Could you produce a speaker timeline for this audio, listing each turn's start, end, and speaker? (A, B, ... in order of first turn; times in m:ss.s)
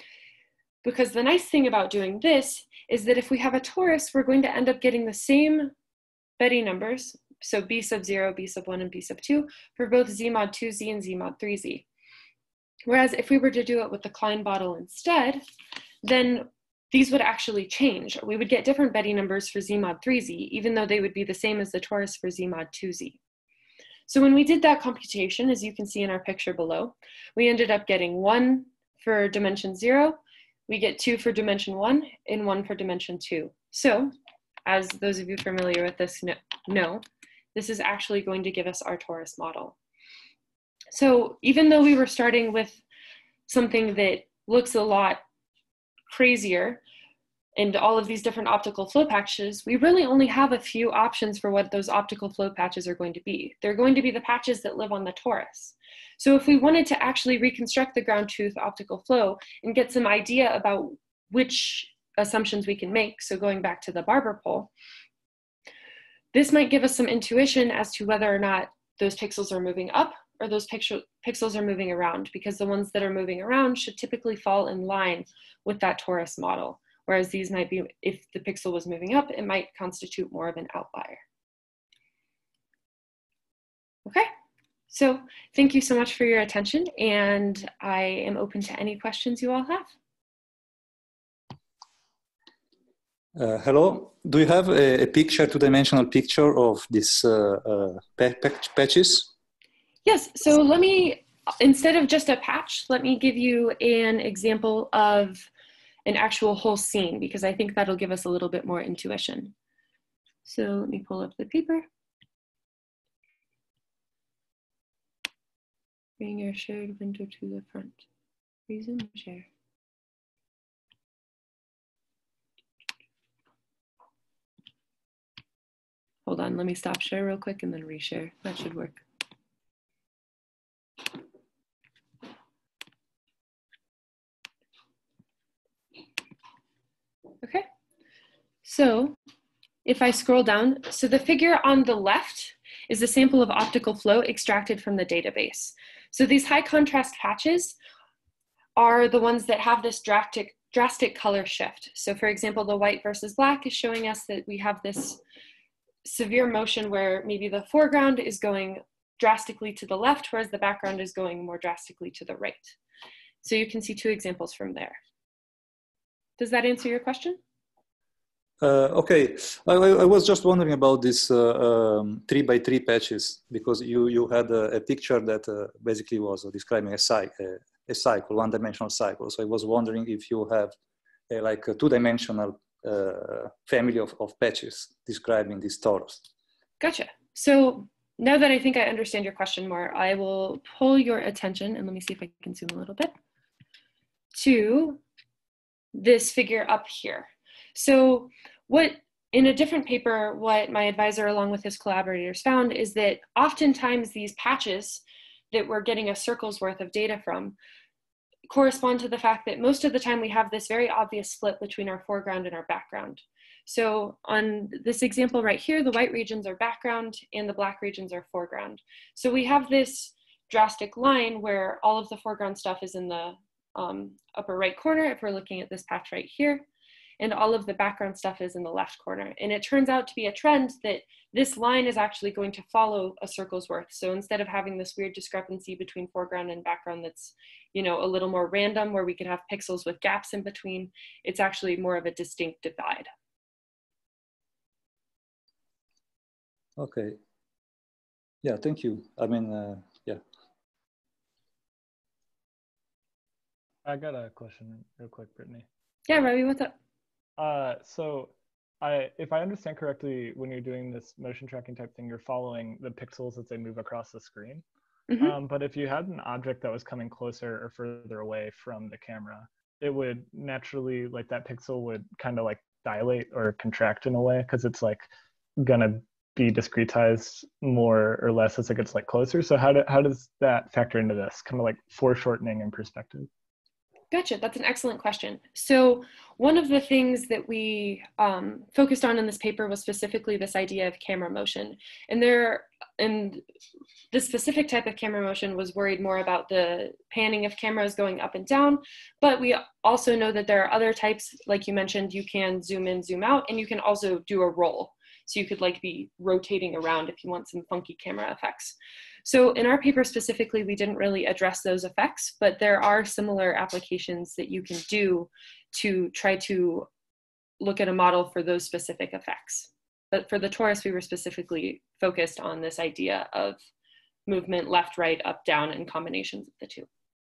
0:00.8-0:05.7 A
0:06.4-0:11.8 A
0:12.9-0:15.4 A
0:16.0-0:23.2 A
0:24.1-0:34.1 A
0:34.6-0:37.0 A
0:37.5-0:39.7 A
0:40.9-0:42.8 A
0:43.5-0:45.2 A
0:46.1-0:46.8 A
0:47.6-1:04.7 A
1:06.3-1:21.2 A
1:24.9-1:29.9 A
1:33.4-1:39.3 B
1:40.0-1:45.5 A
1:46.0-1:49.5 A
1:50.4-1:51.9 A
1:56.2-1:58.0 A
1:58.7-1:59.5 A
2:06.2-2:09.0 A
2:18.6-2:19.2 A
2:19.8-2:27.7 A
2:28.8-2:35.2 A
2:36.0-2:42.8 A
2:43.4-2:45.0 A
2:46.4-2:47.4 A
2:48.6-3:00.7 B
3:01.3-3:06.3 B
3:06.8-3:13.1 A
3:14.3-3:15.0 A
3:15.9-3:27.6 A
3:28.5-3:46.6 A
3:47.2-4:03.1 A
4:06.8-4:07.2 B
4:08.4-4:10.2 B
4:13.8-4:15.6 C
4:16.1-4:16.7 A
4:17.4-4:24.6 C
4:25.1-4:25.4 A
4:25.2-4:35.1 C
4:35.6-4:43.3 C
4:44.1-4:53.4 A
4:54.1-5:16.9 A
5:17.6-5:23.6 A
5:24.3-5:26.9 A